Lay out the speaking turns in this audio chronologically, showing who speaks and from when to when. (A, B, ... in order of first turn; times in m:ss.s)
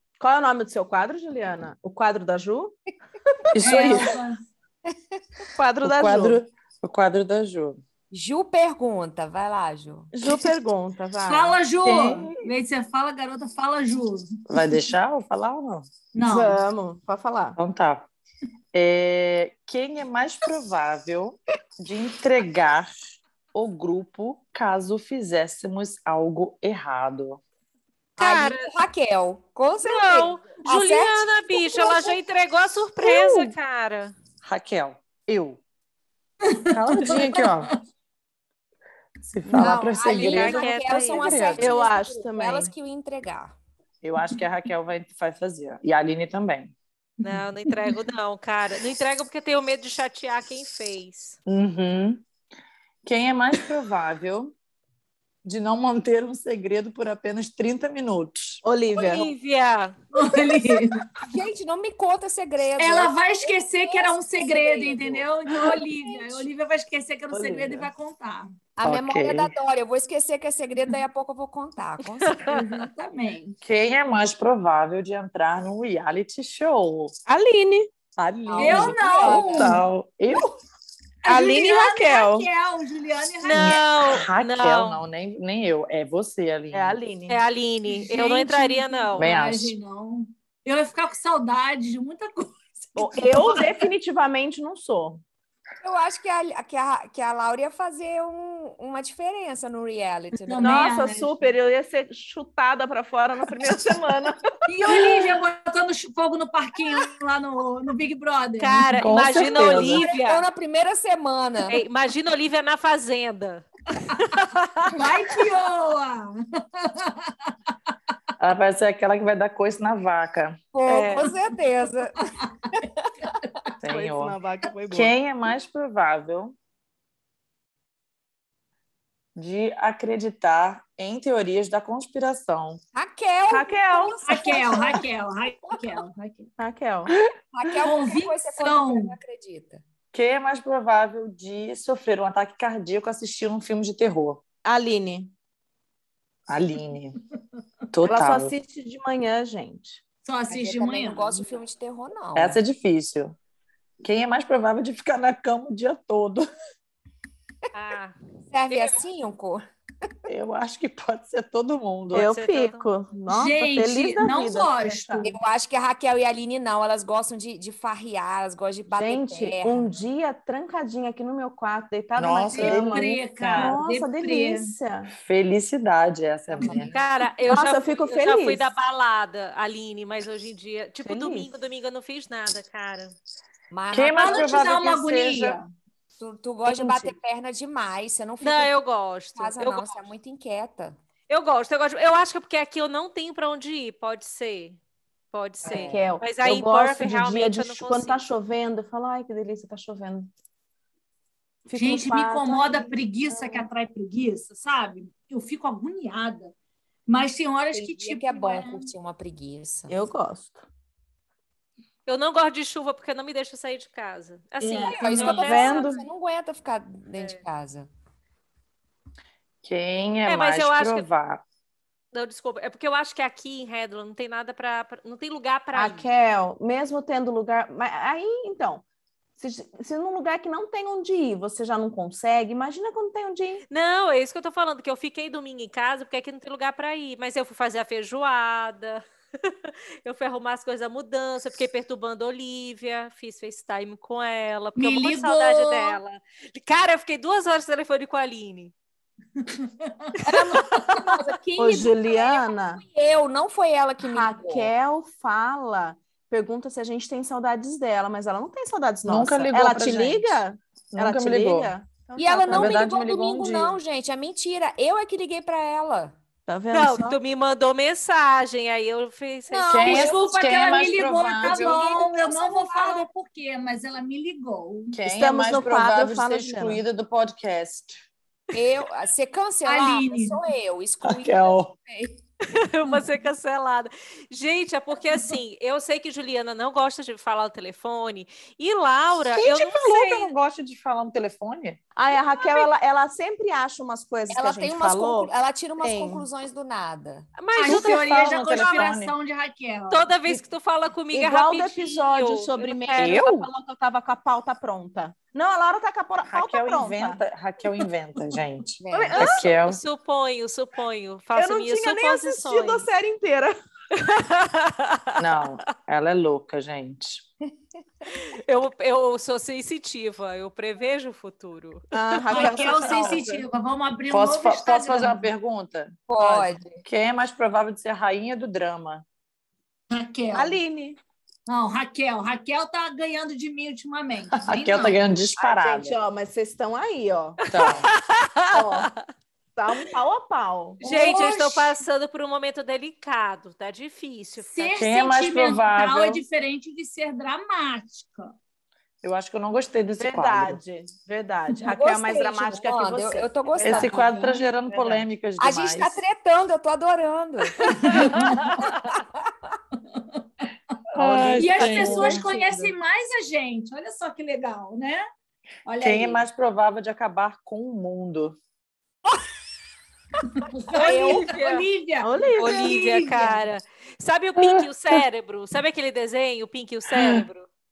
0:00.2-0:02.8 A
0:03.5-0:04.1 A
0:03.5-0:04.1 B
0:03.6-0:04.4 C
0:05.5-0:06.4 A
0:05.8-0:07.8 B
0:08.1-0:10.1 D
0:10.1-0:11.6 A
0:11.2-0:14.4 C
0:11.8-0:12.4 B
0:14.5-0:15.9 B
0:16.1-0:16.6 C
0:16.2-0:17.6 A
0:17.6-0:18.1 B
0:18.7-0:27.4 B
0:28.2-0:28.7 E
0:28.2-0:32.2 D
0:29.8-0:34.1 E
0:33.0-0:33.5 B
0:34.4-0:35.6 B
0:36.4-0:37.8 C
0:36.7-0:37.7 B
0:39.2-0:41.7 B
0:39.4-0:39.8 A
0:39.6-0:43.5 D
0:40.1-0:41.4 E
0:41.6-0:42.7 A
0:44.0-0:46.7 B
0:47.2-0:51.4 E
0:47.2-0:47.9 C
0:51.4-0:52.2 B
0:53.0-0:54.5 B
0:55.4-0:58.6 B
0:58.6-0:59.3 A
0:58.9-1:00.0 E
1:00.1-1:01.1 C
1:01.2-1:06.4 D
1:02.8-1:08.5 C
1:07.3-1:07.9 B
1:08.8-1:12.5 D
1:08.8-1:09.5 B
1:12.5-1:13.6 C
1:13.6-1:17.1 B
1:17.3-1:17.9 A
1:18.2-1:20.5 B
1:18.4-1:19.8 D
1:18.6-1:19.8 C
1:21.2-1:23.8 C
1:21.2-1:22.5 A
1:23.4-1:25.0 E
1:23.5-1:27.0 B
1:26.7-1:27.4 A
1:27.3-1:29.3 E
1:27.9-1:33.9 C
1:29.2-1:29.8 B
1:33.0-1:35.2 A
1:35.8-1:40.9 D
1:40.4-1:41.4 C
1:40.6-1:45.2 A
1:44.6-1:49.0 C
1:48.6-1:50.4 E
1:49.0-1:50.0 B
1:49.5-1:51.8 D
1:51.7-1:55.0 E
1:54.9-1:57.3 C
1:58.4-2:00.6 B
2:00.7-2:03.3 D
2:00.9-2:01.3 E
2:02.2-2:02.5 C
2:03.8-2:04.4 B
2:03.8-2:05.1 A
2:04.9-2:06.6 B
2:09.4-2:12.8 B
2:12.9-2:15.0 D
2:13.5-2:14.8 A
2:14.2-2:16.2 C
2:16.0-2:16.4 D
2:16.6-2:17.1 A
2:17.5-2:19.8 D
2:17.8-2:19.1 C
2:20.1-2:24.4 B
2:24.6-2:25.3 A
2:26.5-2:27.2 B
2:27.9-2:28.5 B
2:28.0-2:30.0 A
2:30.2-2:31.6 C
2:30.5-2:32.6 D
2:32.4-2:33.4 B
2:34.0-2:36.4 B
2:37.7-2:38.1 E
2:38.5-2:39.6 D
2:38.7-2:39.0 E
2:40.3-2:42.3 B
2:42.1-2:45.2 A
2:42.1-2:42.9 E
2:43.3-2:45.3 C
2:45.2-2:49.9 D
2:48.9-2:55.1 A
2:52.2-2:53.8 B
2:52.5-2:54.7 C
2:55.1-2:56.9 B
2:56.6-2:57.0 D
2:56.6-3:03.2 E
2:57.5-2:58.7 A
3:01.0-3:01.5 A
3:03.7-3:04.7 D
3:03.9-3:05.6 B
3:04.2-3:05.7 C
3:06.2-3:08.8 D
3:08.4-3:10.1 E
3:09.4-3:11.0 D
3:11.3-3:14.8 E
3:15.3-3:18.2 E
3:15.6-3:20.3 A
3:15.6-3:16.1 D
3:21.6-3:23.6 A
3:21.7-3:26.5 C
3:27.1-3:28.9 C
3:27.7-3:30.0 D
3:29.9-3:30.7 A
3:32.0-3:35.9 E
3:34.6-3:35.4 C
3:34.9-3:37.9 D
3:35.3-3:36.0 A
3:37.1-3:37.4 E
3:39.6-3:41.4 B
3:40.2-3:41.1 E
3:42.1-3:46.1 E
3:45.7-3:48.8 A
3:49.4-3:53.6 A
3:53.7-4:08.7 E
4:04.8-4:06.0 C
4:09.4-4:11.2 C
4:10.3-4:11.1 E
4:10.3-4:14.7 D
4:11.6-4:12.8 A
4:14.0-4:22.9 A
4:19.0-4:20.3 B
4:20.9-4:21.7 B
4:22.2-4:26.2 D
4:22.5-4:23.8 B
4:26.5-4:27.2 A
4:26.7-4:30.0 E
4:29.5-4:35.0 C
4:29.7-4:31.8 B
4:29.9-4:33.1 D
4:34.9-4:38.0 B
4:35.0-4:36.8 A
4:38.5-4:42.2 D
4:39.6-4:40.4 C
4:41.0-4:41.7 B
4:42.4-4:50.3 E
4:49.4-4:51.8 B
4:51.9-4:56.2 A
4:52.3-4:52.7 E
4:54.3-4:57.2 D
4:57.4-4:58.9 E
4:57.6-5:00.3 C
4:57.6-4:59.1 B
4:59.9-5:03.3 E
5:01.1-5:07.2 A
5:03.0-5:03.5 B
5:06.2-5:09.8 B
5:08.8-5:09.3 D
5:08.9-5:09.5 A
5:09.2-5:12.9 E
5:11.3-5:13.5 A
5:13.9-5:15.4 E
5:15.2-5:17.2 B
5:18.1-5:22.6 E
5:21.9-5:23.4 A
5:22.3-5:25.3 C
5:24.1-5:29.0 B
5:26.1-5:26.8 D
5:29.9-5:30.6 C
5:30.3-5:31.0 A
5:31.5-5:35.0 C
5:34.3-5:36.0 B
5:35.4-5:37.4 A
5:37.5-5:39.0 E
5:37.5-5:37.9 B
5:38.5-5:38.9 A
5:39.6-5:41.1 A
5:40.8-5:41.7 C
5:40.8-5:44.7 E
5:44.4-5:48.3 C
5:44.7-5:46.2 B
5:49.0-5:50.6 B
5:50.0-5:55.0 A
5:51.6-5:54.2 D
5:53.6-5:56.0 B
5:55.4-5:58.4 D
5:57.6-5:58.7 C
5:58.2-5:58.6 E
5:59.9-6:00.2 C
6:00.9-6:02.2 B
6:01.0-6:02.6 D
6:01.0-6:02.6 A
6:01.4-6:05.0 C
6:05.6-6:06.2 C
6:05.8-6:08.4 B
6:10.3-6:13.4 C
6:10.8-6:11.3 D
6:10.8-6:11.6 E
6:12.0-6:12.6 A
6:12.4-6:17.5 E
6:14.4-6:14.7 B
6:16.9-6:17.2 B